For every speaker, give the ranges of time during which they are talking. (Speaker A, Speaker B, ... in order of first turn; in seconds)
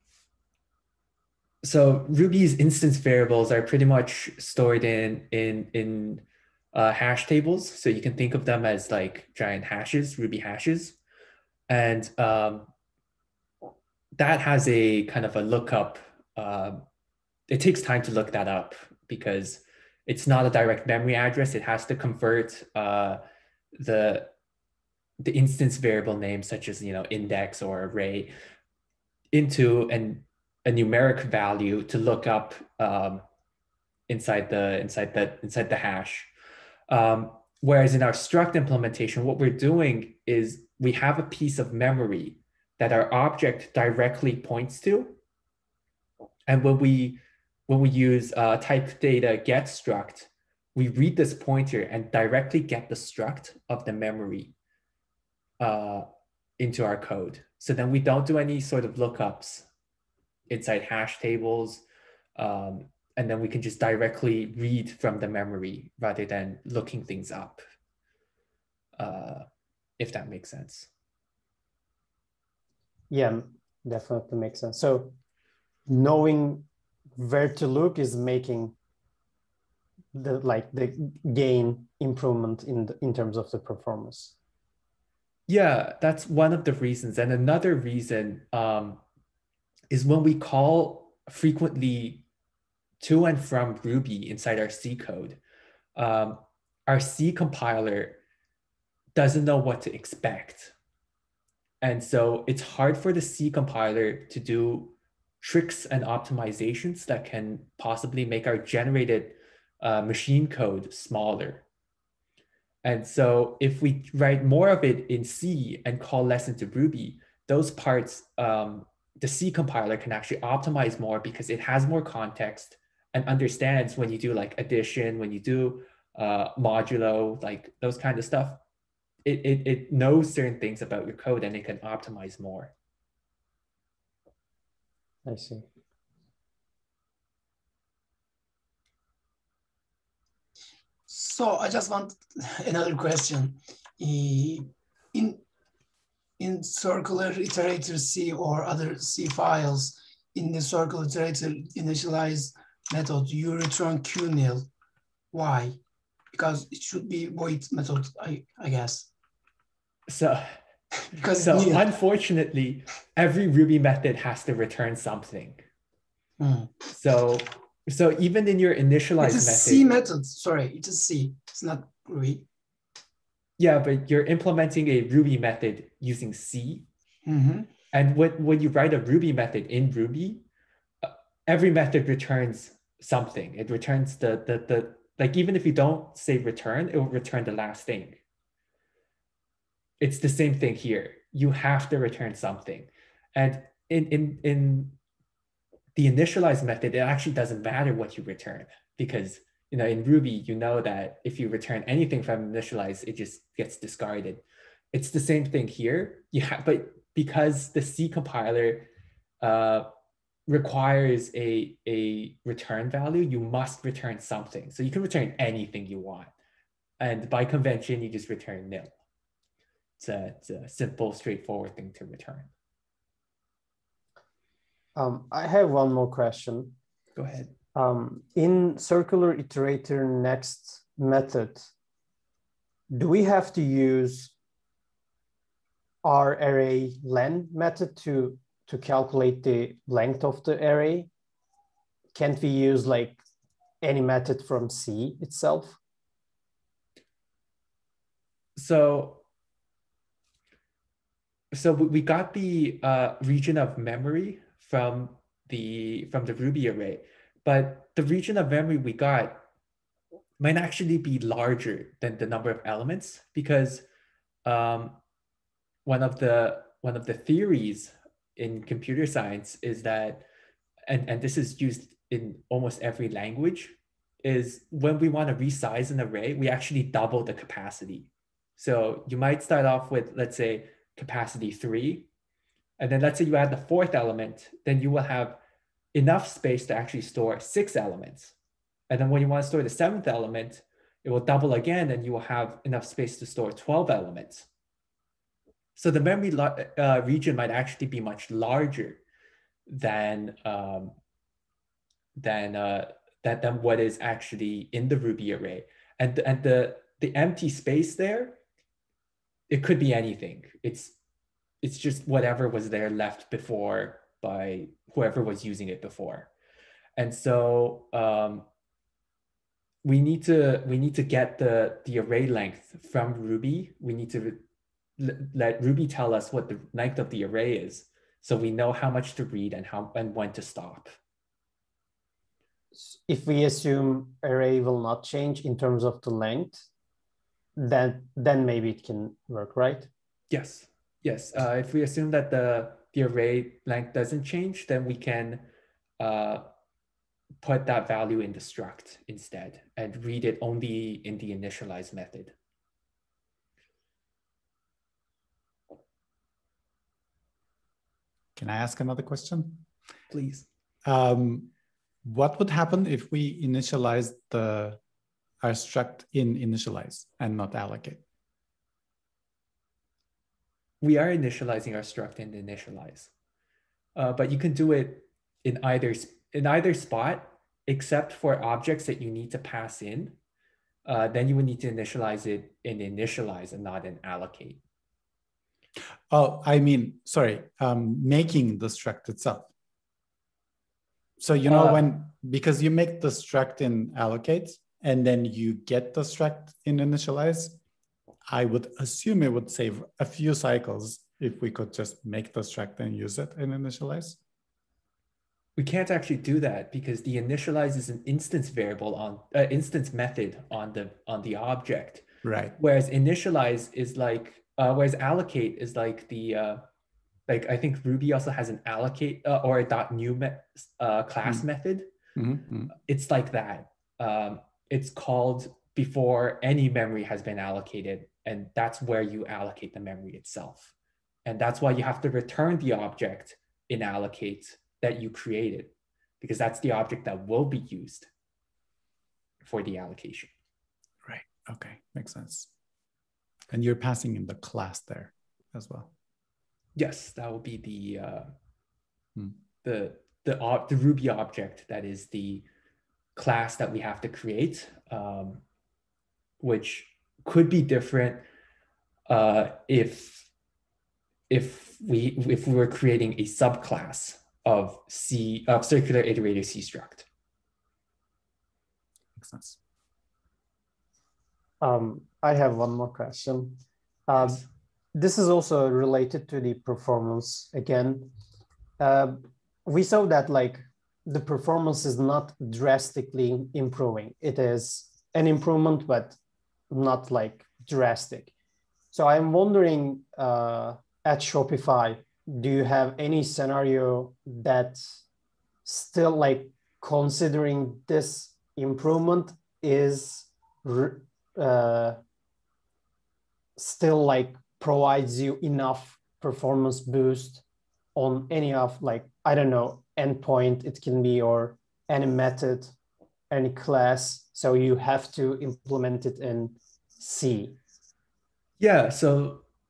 Speaker A: 1.6-11.0, 11.7-12.7, 14.2-16.8, 17.5-23.2, 23.8-24.3, 25.2-28.3, 29.3-33.2, 34.1-36.3, 36.9-45.2, 46.5-54.5, 55.6-56.1, 56.6-59.7, 60.5-61.8, 62.4-67.6, 69.0-69.5, 70.0-70.9, 85.5-89.0, 89.9-92.2, 93.0-95.4, 96.0-98.2, 99.2-100.7, 101.8-111.7, 112.8-128.6, 129.2-132.7, 160.1-160.5, 161.3-165.6, 166.9-169.9, 173.6-176.9, 177.9-180.4, 181.0-188.2, 190.0-195.0, 195.9-204.4, 204.9-208.9, 209.4-209.9, 210.5-216.3, 217.0-218.9, 220.0-222.5, 227.2-227.5, 248.6-249.2, 251.5-259.4, 260.4-263.9, 264.4-265.0, 265.9-270.3, 270.9-282.1, 282.8-285.4, 285.9-288.4, 288.9-294.5, 295.8-299.0, 299.7-301.0, 302.2-308.4, 309.5-311.0, 311.6-316.3, 317.0-318.5, 319.8-324.4, 325.0-331.0, 340.3-345.5, 346.0-346.5, 347.4-352.3, 360.1-360.5, 370.8-373.1, 374.0-380.2, 380.9-384.6, 391.5-391.9, 405.6-412.1, 412.6-416.6, 417.3-421.9, 422.9-430.7, 431.2-438.1, 439.4-440.3, 446.8-448.3, 449.6-452.5, 453.2-455.4, 456.4-458.3, 459.1-460.3, 461.3-467.1, 474.2-474.5, 518.6-519.4
Speaker B: 73.1-75.2, 75.9-78.8, 80.1-84.3, 135.2-135.7, 225.0-226.8, 227.8-231.7, 232.9-234.3, 236.0-241.1, 242.1-243.2, 243.8-245.8, 332.7-336.6, 337.6-339.9, 471.6-478.1, 478.8-486.2, 486.7-488.3, 488.9-494.9, 495.6-502.0, 503.6-507.4, 507.9-512.7, 513.3-517.6
Speaker C: 141.1-145.4, 146.4-154.7, 155.3-155.8, 156.3-159.1, 161.1-161.9, 166.4-166.8, 169.2-172.5, 177.3-177.7
Speaker D: 358.4-359.7, 360.8-361.5, 362.0-364.8, 365.4-368.0, 386.1-389.5, 391.2-397.6, 398.3-404.2, 412.2-412.6, 422.1-422.7, 441.1-442.5, 443.5-445.9, 469.2-469.6